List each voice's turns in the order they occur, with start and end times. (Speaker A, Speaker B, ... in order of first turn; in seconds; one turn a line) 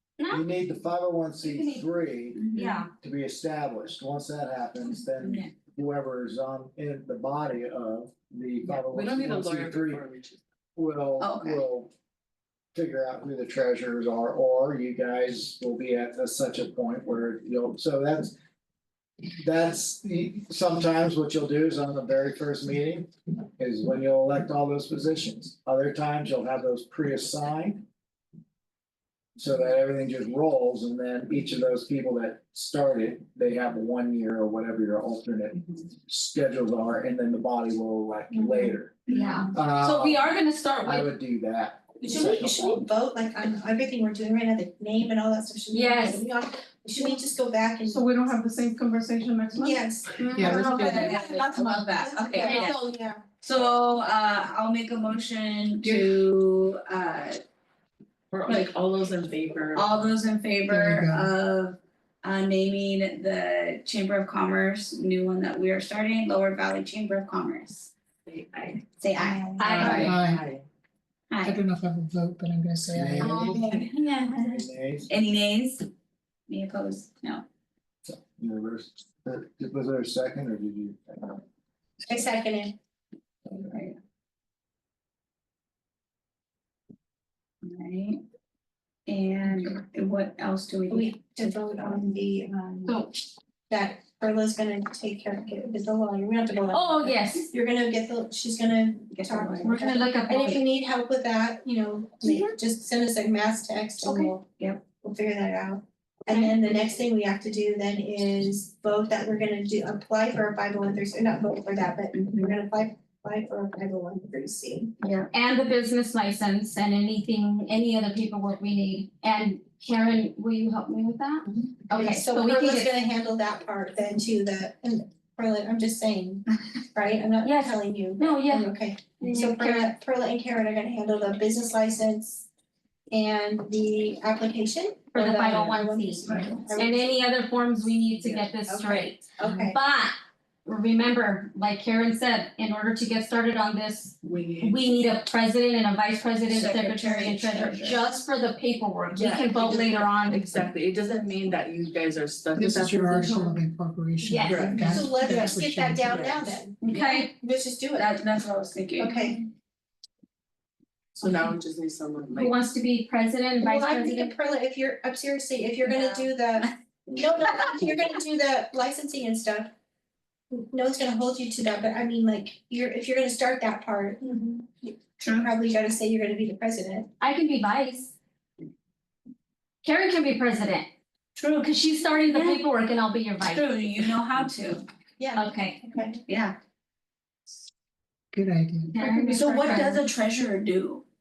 Speaker A: 0.2-0.5
Speaker B: 0.3-2.4
Speaker A: 1.4-1.9
Speaker C: 2.3-2.9
Speaker A: 2.5-2.9
Speaker B: 3.0-10.0
Speaker D: 8.6-10.4
Speaker B: 10.8-11.9
Speaker C: 11.2-11.7
Speaker B: 12.7-18.3
Speaker B: 19.4-27.9
Speaker B: 29.4-42.8
Speaker A: 38.4-41.1
Speaker C: 39.1-39.5
Speaker E: 42.0-48.2
Speaker A: 45.7-46.3
Speaker F: 47.8-49.8
Speaker E: 49.5-53.2
Speaker G: 50.3-51.2
Speaker C: 50.3-52.8
Speaker A: 52.4-52.7
Speaker C: 53.4-57.4
Speaker D: 58.3-60.1
Speaker C: 59.7-67.9
Speaker G: 60.7-61.3
Speaker D: 68.2-68.8
Speaker C: 69.0-70.2
Speaker A: 69.6-70.0
Speaker D: 69.6-70.7
Speaker G: 69.8-70.4
Speaker C: 71.3-71.6
Speaker G: 71.4-73.8
Speaker B: 72.9-75.1
Speaker A: 73.2-74.5
Speaker C: 73.4-74.3
Speaker C: 75.1-75.8
Speaker C: 76.5-77.4
Speaker B: 78.0-81.4
Speaker E: 82.1-82.7
Speaker C: 83.5-84.0
Speaker C: 87.6-88.2
Speaker C: 89.1-91.5
Speaker E: 90.9-93.0
Speaker A: 92.8-93.2
Speaker E: 93.7-104.4
Speaker A: 96.7-97.5
Speaker C: 99.1-99.9
Speaker A: 99.6-100.6
Speaker A: 102.2-102.5
Speaker A: 104.0-104.3
Speaker C: 104.5-104.8
Speaker E: 105.0-114.9
Speaker A: 106.3-106.7
Speaker C: 112.1-112.5
Speaker C: 115.0-115.3
Speaker A: 115.3-123.0
Speaker E: 121.9-132.5
Speaker A: 127.4-129.9
Speaker E: 133.1-137.2
Speaker A: 135.1-150.6
Speaker C: 136.3-136.5
Speaker E: 138.7-139.8
Speaker D: 144.2-144.9
Speaker C: 146.5-148.0
Speaker C: 149.2-149.6
Speaker D: 149.3-153.6
Speaker G: 152.5-156.6
Speaker A: 154.2-154.8
Speaker D: 154.4-155.2
Speaker E: 154.8-158.1
Speaker D: 156.1-156.3
Speaker A: 156.8-157.3
Speaker C: 156.8-157.3
Speaker C: 157.9-159.4
Speaker E: 159.0-159.4
Speaker D: 161.2-162.6
Speaker A: 162.3-164.3
Speaker E: 163.6-169.7
Speaker C: 165.8-167.6
Speaker E: 170.5-177.1
Speaker C: 175.2-175.5
Speaker A: 177.2-178.1
Speaker A: 179.8-180.9
Speaker C: 181.3-181.7
Speaker A: 181.6-183.8
Speaker C: 182.3-182.6
Speaker C: 183.4-184.8
Speaker E: 185.2-186.2
Speaker A: 185.3-185.8
Speaker C: 186.3-186.6
Speaker G: 188.3-189.4
Speaker A: 188.9-190.0
Speaker C: 189.0-191.0